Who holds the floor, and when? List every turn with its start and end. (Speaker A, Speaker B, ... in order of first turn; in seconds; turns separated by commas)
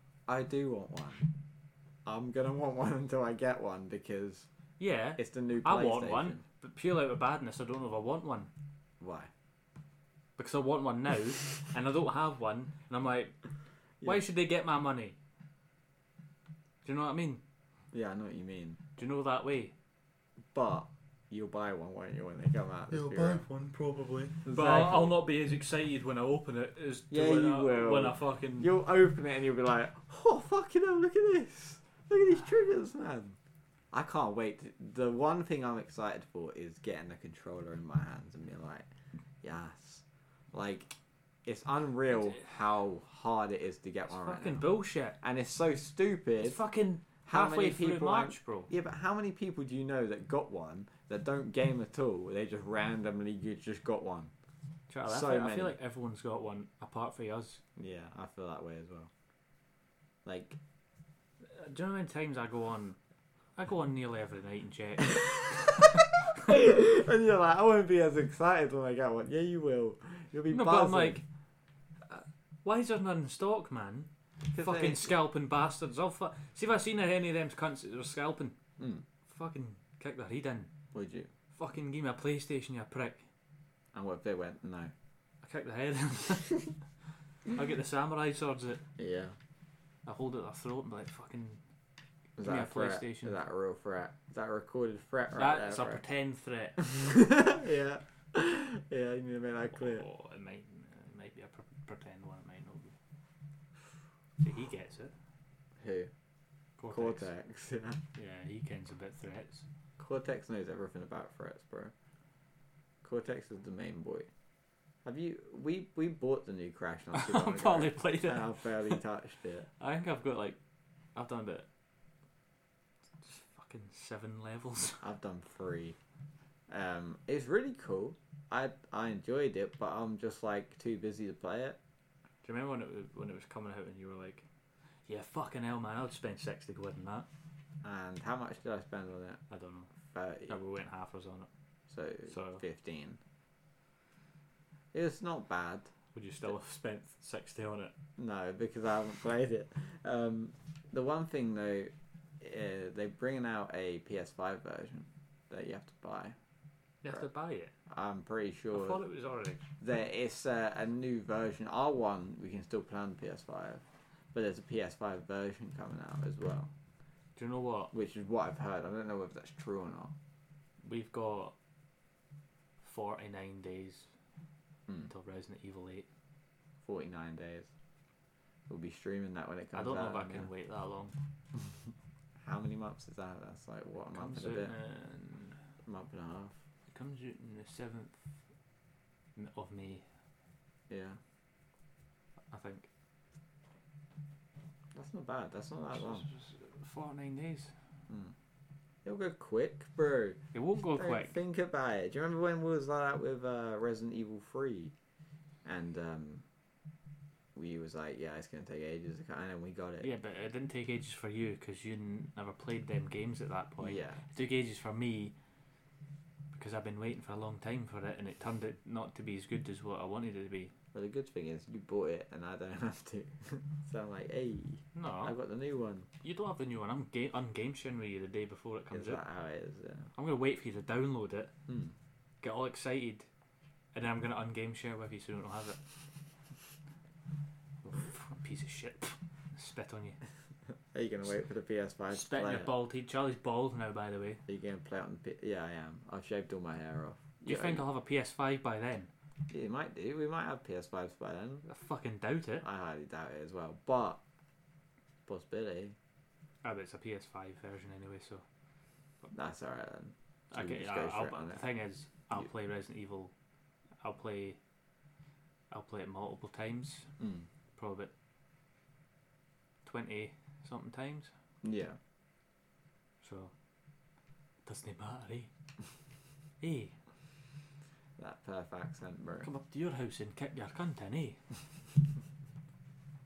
Speaker A: 0.3-1.3, Speaker A: 2.0-4.5, Speaker B: 4.8-8.5, Speaker A: 5.2-6.4, Speaker A: 9.0-9.3, Speaker B: 10.4-13.4, Speaker B: 14.0-15.2, Speaker B: 16.8-17.4, Speaker A: 17.9-18.8, Speaker B: 19.0-19.8, Speaker A: 20.5-23.5, Speaker B: 23.1-28.7, Speaker A: 24.4-25.1, Speaker A: 27.1-33.4, Speaker A: 33.9-38.9, Speaker A: 39.4-40.9, Speaker A: 41.5-44.6, Speaker B: 44.1-45.2, Speaker A: 45.2-46.6, Speaker B: 46.4-48.7, Speaker A: 47.2-54.3, Speaker B: 54.9-57.6, Speaker A: 55.0-55.8, Speaker A: 57.8-59.1, Speaker A: 60.2-60.6, Speaker B: 61.5-63.0, Speaker B: 63.6-65.9, Speaker A: 65.1-71.2, Speaker B: 70.5-71.2, Speaker B: 72.1-78.6, Speaker A: 74.5-75.1, Speaker A: 78.8-79.0, Speaker B: 79.3-80.7, Speaker A: 80.9-81.3, Speaker B: 81.5-83.3, Speaker A: 83.9-84.9, Speaker B: 85.4-86.8, Speaker B: 87.5-88.8, Speaker A: 89.0-89.4, Speaker B: 90.1-91.6, Speaker A: 92.4-96.0, Speaker B: 92.4-93.4, Speaker B: 95.4-96.9, Speaker A: 96.8-100.0, Speaker B: 99.7-103.0, Speaker B: 104.4-105.1, Speaker A: 105.8-106.1, Speaker B: 106.8-107.3, Speaker A: 106.9-108.0, Speaker B: 108.2-109.7, Speaker A: 110.0-111.9, Speaker A: 113.0-114.3, Speaker A: 115.0-119.7, Speaker B: 117.1-119.0, Speaker B: 119.8-120.6, Speaker B: 121.2-121.7, Speaker B: 123.2-125.1, Speaker A: 125.0-126.0, Speaker A: 126.7-131.8, Speaker B: 132.4-134.5, Speaker B: 135.1-137.3, Speaker A: 137.8-139.4, Speaker B: 139.5-139.9, Speaker A: 140.1-140.6, Speaker B: 140.5-141.5, Speaker A: 141.9-143.2, Speaker B: 142.3-142.6, Speaker A: 144.9-145.9, Speaker B: 146.2-147.9, Speaker A: 148.2-156.4, Speaker B: 157.0-157.7, Speaker A: 157.9-159.0, Speaker B: 158.7-159.7, Speaker A: 159.8-166.7, Speaker B: 167.4-167.9, Speaker A: 167.9-170.1, Speaker B: 170.8-171.6, Speaker B: 172.8-174.1, Speaker B: 175.0-176.1, Speaker A: 176.8-177.7, Speaker A: 178.7-180.5, Speaker B: 179.7-181.2, Speaker A: 182.4-184.7, Speaker B: 184.1-185.6, Speaker A: 185.8-186.6, Speaker B: 186.9-188.2, Speaker B: 189.4-190.1, Speaker A: 190.9-191.2, Speaker B: 192.5-192.9, Speaker A: 194.9-196.3, Speaker B: 195.9-197.7, Speaker A: 198.1-198.3, Speaker A: 199.1-200.4, Speaker B: 200.5-201.3, Speaker A: 200.9-204.9, Speaker A: 205.7-206.4, Speaker A: 207.6-210.1, Speaker B: 210.0-215.3, Speaker A: 213.8-214.2, Speaker B: 216.5-220.7, Speaker A: 220.9-226.1, Speaker B: 224.9-225.3, Speaker B: 226.2-229.2, Speaker A: 228.9-230.1, Speaker B: 230.2-231.5, Speaker A: 231.7-231.9, Speaker B: 232.4-233.3, Speaker B: 233.9-235.8, Speaker B: 237.8-240.2, Speaker A: 240.9-242.7, Speaker B: 242.1-244.4, Speaker A: 244.5-247.8, Speaker B: 247.4-249.1, Speaker A: 249.5-251.7, Speaker B: 251.7-252.7, Speaker A: 252.6-254.2, Speaker A: 255.3-256.0, Speaker B: 256.6-258.4, Speaker A: 259.3-261.7, Speaker B: 260.5-263.3, Speaker B: 264.0-264.6, Speaker B: 265.7-267.1, Speaker A: 267.2-267.5, Speaker B: 267.8-268.1, Speaker B: 269.9-271.3, Speaker A: 271.6-272.0, Speaker B: 273.2-273.5, Speaker B: 274.7-275.5, Speaker B: 276.6-277.0, Speaker A: 278.2-279.5, Speaker B: 279.4-281.4